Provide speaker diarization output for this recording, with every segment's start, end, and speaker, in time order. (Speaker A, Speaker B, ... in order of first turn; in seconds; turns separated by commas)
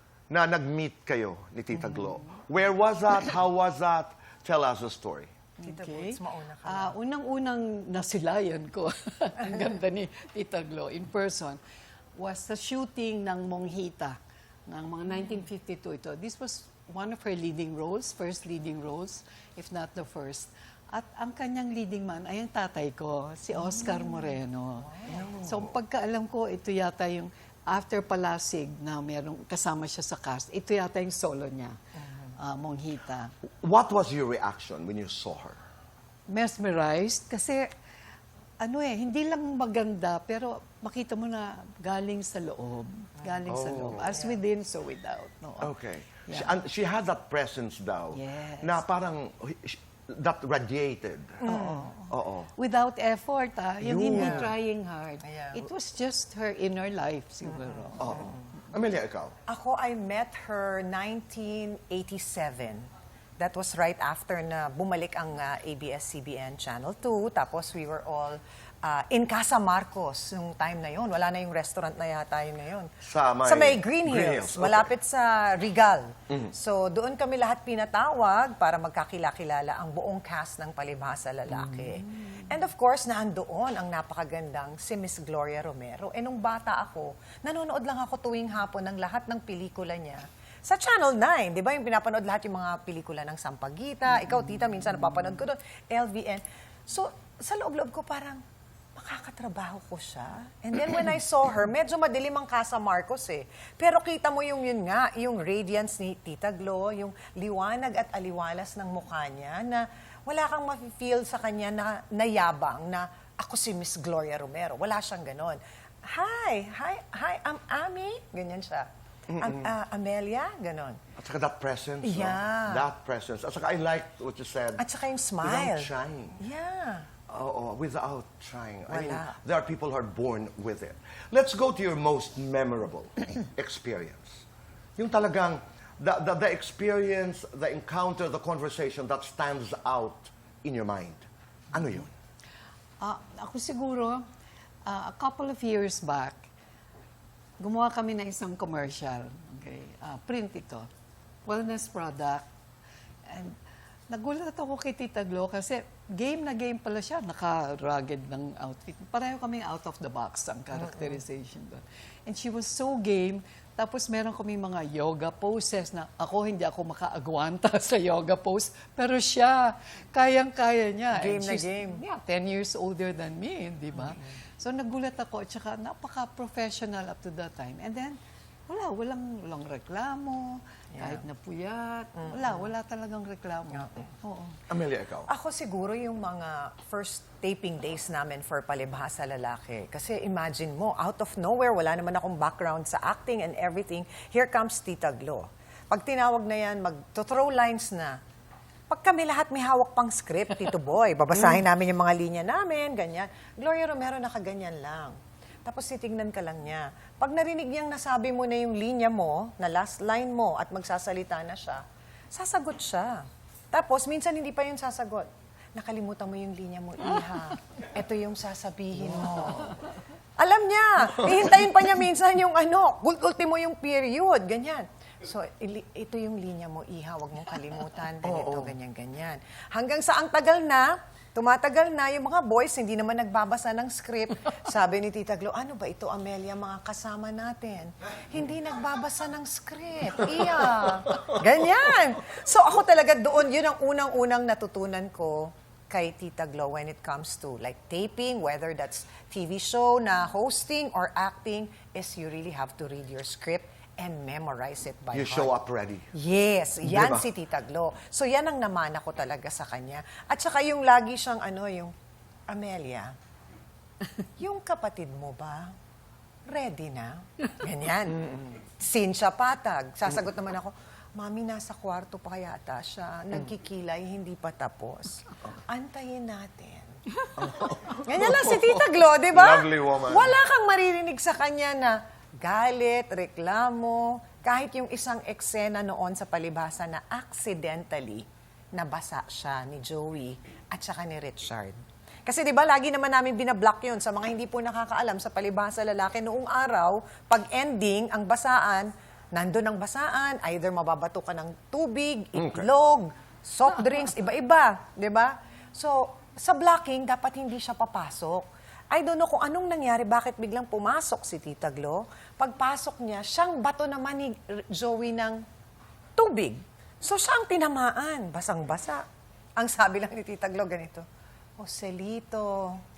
Speaker A: 0.3-5.3, Speaker B: 1.8-2.2, Speaker B: 5.6-11.6, Speaker C: 5.6-6.9, Speaker B: 12.2-33.3, Speaker C: 23.5-24.3, Speaker C: 24.9-25.3, Speaker A: 33.4-35.6, Speaker B: 36.3-37.7, Speaker B: 38.6-45.7, Speaker A: 43.5-44.2, Speaker A: 45.6-51.5, Speaker B: 46.2-46.6, Speaker B: 48.1-48.8, Speaker C: 51.4-51.9, Speaker B: 51.5-58.3, Speaker A: 52.1-52.5, Speaker A: 53.8-54.5, Speaker C: 54.1-54.5, Speaker C: 55.2-55.7, Speaker C: 57.5-58.4, Speaker A: 58.0-59.3, Speaker C: 59.5-62.9, Speaker C: 63.4-98.4, Speaker A: 73.0-74.9, Speaker B: 81.6-82.4, Speaker C: 98.9-121.0, Speaker A: 119.3-119.7, Speaker A: 121.2-124.8, Speaker C: 122.0-122.8, Speaker C: 124.8-127.1, Speaker A: 125.4-126.4, Speaker A: 127.3-134.4, Speaker C: 128.9-129.3, Speaker A: 135.0-142.1, Speaker B: 143.0-144.2, Speaker B: 144.8-146.4, Speaker B: 147.6-150.9, Speaker B: 151.4-152.4, Speaker B: 153.3-153.6, Speaker B: 154.1-184.6, Speaker C: 171.1-172.0, Speaker C: 180.9-181.2, Speaker A: 184.7-185.3, Speaker C: 185.3-198.2, Speaker C: 198.9-219.8, Speaker A: 219.1-219.8, Speaker C: 220.4-255.5, Speaker A: 228.2-228.7, Speaker A: 255.1-256.1, Speaker C: 256.1-261.9, Speaker A: 256.8-257.2, Speaker C: 262.5-263.1, Speaker C: 264.4-265.7, Speaker C: 266.5-315.4, Speaker A: 277.4-278.6, Speaker A: 279.3-280.4, Speaker A: 302.4-302.7, Speaker C: 316.1-319.0, Speaker C: 319.6-321.1, Speaker C: 321.6-322.8